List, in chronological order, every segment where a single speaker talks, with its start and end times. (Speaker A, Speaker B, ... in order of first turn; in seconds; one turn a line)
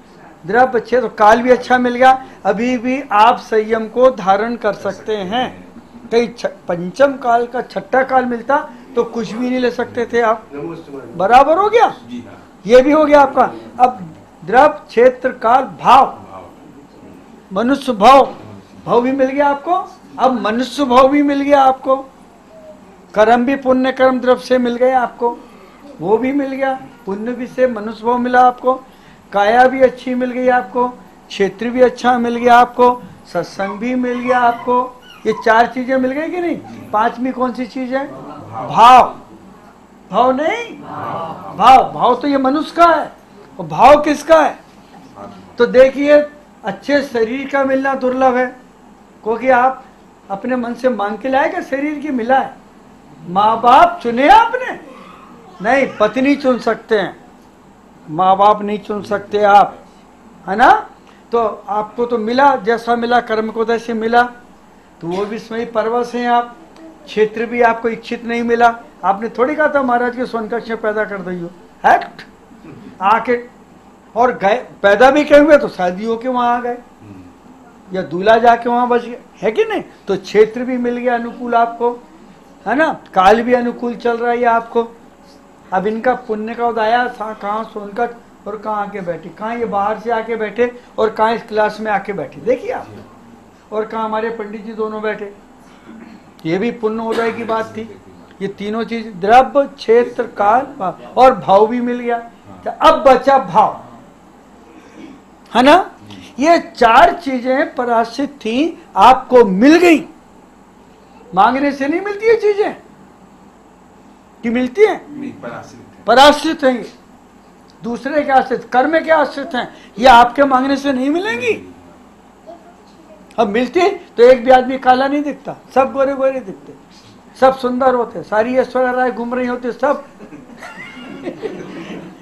Speaker A: 0.4-5.5
Speaker B: 4.8-5.7
Speaker A: 6.1-10.5
Speaker A: 11.0-12.0
Speaker B: 12.0-12.4
Speaker A: 12.6-16.2
Speaker B: 16.1-17.0
Speaker A: 17.5-22.1
Speaker B: 18.5-18.8
Speaker A: 23.1-25.4
Speaker A: 26.0-39.2
Speaker B: 38.4-38.8
Speaker A: 40.1-40.8
Speaker B: 40.9-41.6
Speaker A: 41.4-44.6
Speaker B: 45.1-45.7
Speaker A: 45.6-48.5
Speaker A: 49.2-52.5
Speaker A: 53.3-54.8
Speaker A: 55.6-57.2
Speaker A: 58.1-59.7
Speaker B: 59.1-59.7
Speaker A: 60.5-64.3
Speaker A: 65.0-72.3
Speaker A: 73.0-73.5
Speaker A: 74.1-76.8
Speaker B: 77.0-77.3
Speaker A: 77.9-82.0
Speaker A: 82.7-84.9
Speaker A: 85.7-92.9
Speaker B: 92.7-93.1
Speaker A: 93.7-95.3
Speaker A: 96.4-103.8
Speaker B: 97.3-98.5
Speaker A: 105.5-110.1
Speaker B: 106.0-106.3
Speaker A: 111.3-112.8
Speaker A: 114.4-115.0
Speaker B: 115.1-116.1
Speaker A: 116.0-116.9
Speaker A: 117.8-121.6
Speaker B: 121.2-122.0
Speaker A: 123.4-126.8
Speaker A: 127.3-130.1
Speaker A: 131.0-131.8